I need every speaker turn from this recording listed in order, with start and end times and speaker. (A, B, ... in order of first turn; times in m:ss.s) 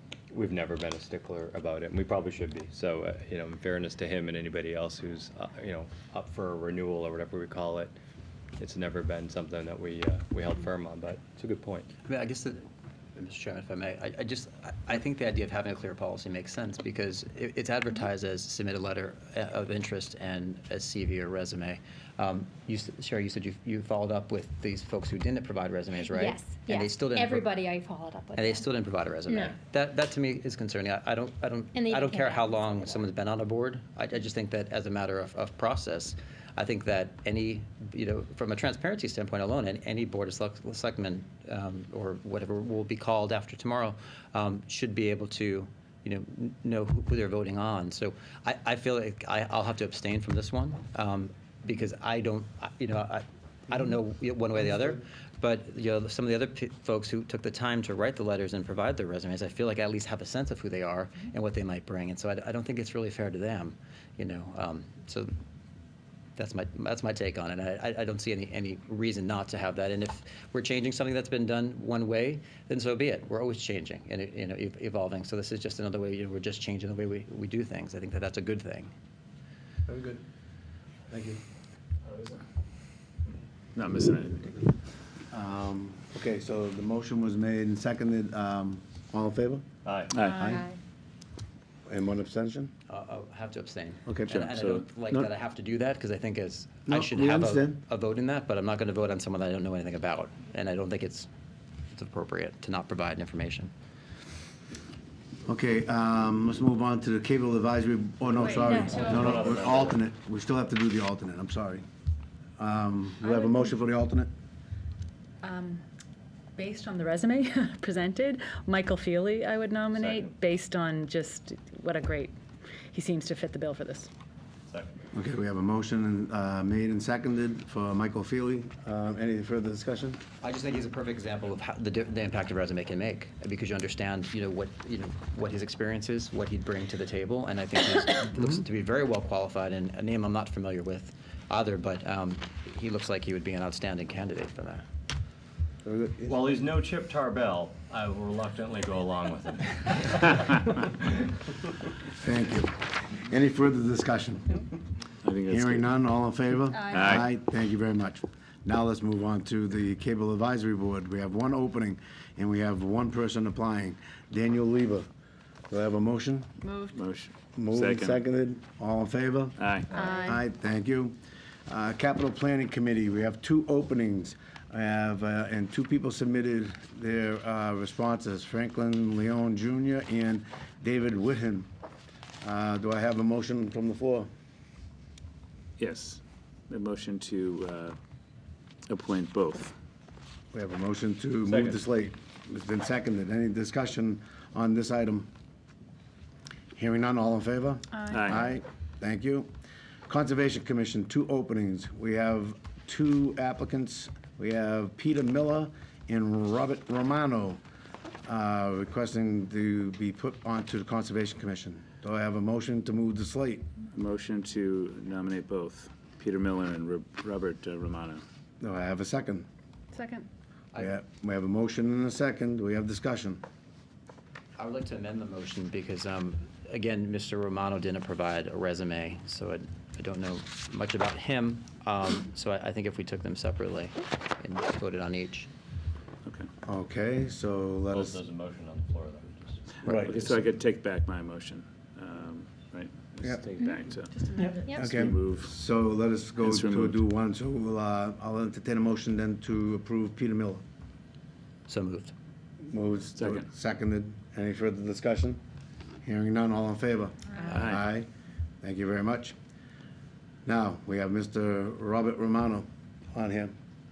0:00.3-0:07.9 A
0:08.6-0:11.9 A
0:12.1-0:12.6 B
0:13.2-0:27.6 B
0:26.1-0:28.7 C
0:28.4-1:05.3 B
0:29.3-0:29.5 C
0:31.7-0:32.9 C
1:06.4-1:18.9 B
1:19.9-1:20.2 D
1:21.1-1:21.4 D
1:22.0-1:22.4 E
1:23.7-1:24.6 E
1:25.3-1:29.6 D
1:29.8-1:30.3 A
1:30.1-1:30.4 E
1:30.3-1:30.6 D
1:30.4-1:30.7 C
1:31.9-1:32.7 D
1:32.9-1:41.3 B
1:34.0-1:34.4 D
1:34.3-1:34.8 E
1:36.9-1:37.8 D
1:41.9-1:43.7 B
1:45.4-1:51.8 D
1:48.4-1:49.6 F
1:48.7-1:48.9 C
1:48.7-1:50.0 A
1:52.6-1:54.3 D
1:53.2-1:53.6 F
1:55.4-1:55.8 F
1:56.6-2:02.3 F
2:00.0-2:00.3 A
2:02.9-2:04.1 F
2:04.7-2:05.0 A
2:05.1-2:10.2 D
2:10.4-2:24.8 B
2:25.8-2:26.5 D
2:26.3-2:30.8 A
2:32.2-2:34.6 D
2:35.2-2:35.9 E
2:35.5-2:45.1 D
2:36.7-2:37.0 F
2:36.9-2:37.2 E
2:45.7-2:46.5 D
2:46.6-2:47.0 F
2:46.9-2:48.2 E
2:47.5-2:51.2 D
2:49.6-2:50.0 E
2:49.9-2:50.4 F
2:51.7-3:01.7 D
3:02.4-3:04.3 D
3:05.8-3:08.0 E
3:08.9-3:09.7 E
3:10.5-3:15.3 D
3:11.4-3:11.8 A
3:16.7-3:19.5 D
3:18.1-3:18.4 E
3:20.1-3:27.6 D
3:28.2-3:33.6 D
3:33.9-3:38.2 E
3:38.6-3:39.5 D
3:39.9-3:40.3 F
3:40.8-3:43.4 D
3:44.6-3:55.5 B
3:56.6-3:58.2 D
3:57.9-3:59.6 A
3:59.8-4:00.3 D
3:59.8-4:05.5 E
4:04.1-4:04.7 F
4:04.6-4:04.9 C
4:04.7-4:10.6 D
4:06.4-4:07.0 E
4:11.7-4:12.1 B
4:12.6-4:15.4 D
4:13.2-4:13.4 E
4:16.0-4:18.1 D
4:17.5-4:17.8 E
4:18.6-4:19.3 D
4:20.4-4:23.5 D